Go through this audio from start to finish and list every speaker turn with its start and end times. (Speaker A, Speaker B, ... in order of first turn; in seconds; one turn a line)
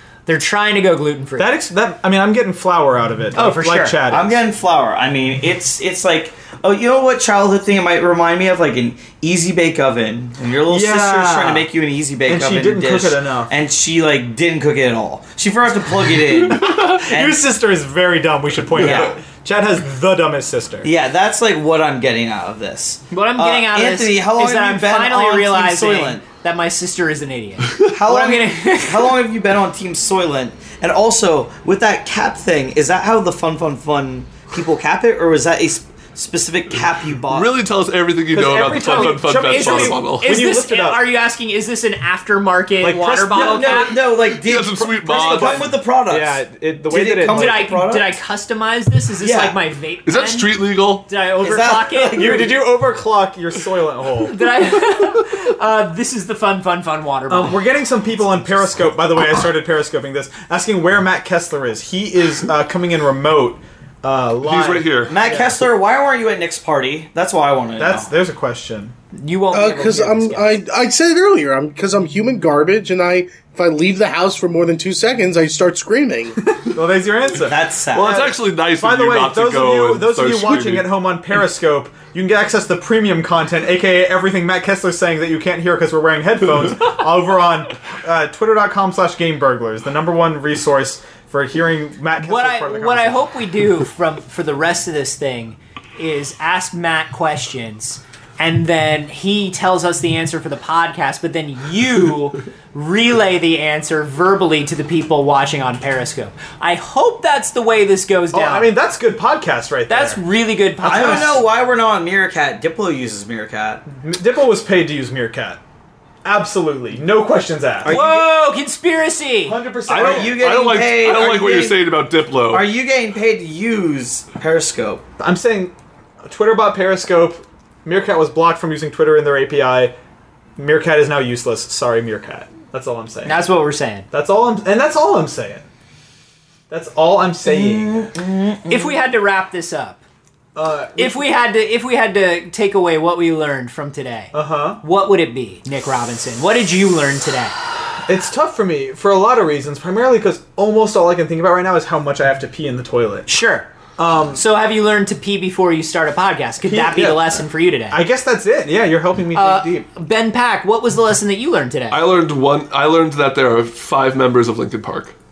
Speaker A: 0.3-1.5
Speaker B: 1.4-4.4
Speaker A: 3.4-4.0
Speaker C: 4.1-17.4
Speaker B: 10.7-11.7
Speaker B: 12.3-13.5
Speaker D: 16.6-17.0
Speaker B: 16.6-20.9
Speaker D: 18.8-19.1
Speaker C: 18.8-19.2
Speaker C: 20.8-26.2
Speaker A: 23.1-29.2
Speaker C: 27.9-37.5
Speaker D: 37.3-40.3
Speaker B: 38.3-41.0
Speaker A: 38.6-44.0
Speaker B: 42.8-43.8
Speaker C: 43.3-48.2
Speaker D: 44.1-45.8
Speaker B: 45.1-47.7
Speaker A: 47.3-52.5
Speaker C: 49.2-49.6
Speaker D: 50.1-51.1
Speaker C: 51.4-52.6
Speaker B: 52.2-54.4
Speaker A: 54.3-57.7
Speaker B: 57.3-65.6
Speaker D: 64.4-65.2
Speaker C: 65.1-68.1
Speaker B: 67.8-69.0
Speaker A: 69.1-70.6
Speaker E: 69.5-76.4
Speaker B: 76.5-93.3
Speaker C: 77.4-78.2
Speaker D: 77.9-80.9
Speaker A: 92.2-108.7
Speaker B: 108.3-110.2
Speaker A: 109.9-111.5
Speaker C: 110.8-113.8
Speaker B: 110.8-111.4
Speaker B: 113.9-115.6
Speaker B: 116.2-118.0
Speaker A: 117.8-119.6
Speaker C: 117.9-118.3
Speaker B: 119.5-120.4
Speaker D: 119.9-122.7
Speaker C: 119.9-121.8
Speaker C: 122.5-125.0
Speaker B: 125.2-125.7
Speaker B: 126.2-129.9
Speaker B: 130.6-133.4
Speaker A: 133.2-134.1
Speaker B: 134.1-135.7
Speaker B: 136.7-138.1
Speaker C: 137.4-139.0
Speaker A: 138.7-140.0
Speaker B: 140.6-141.3
Speaker A: 141.0-147.6
Speaker B: 144.3-144.8
Speaker B: 148.0-153.3
Speaker A: 153.3-153.7
Speaker B: 154.0-154.4
Speaker A: 154.3-158.0
Speaker B: 156.7-159.9
Speaker A: 159.3-162.0
Speaker D: 161.9-165.1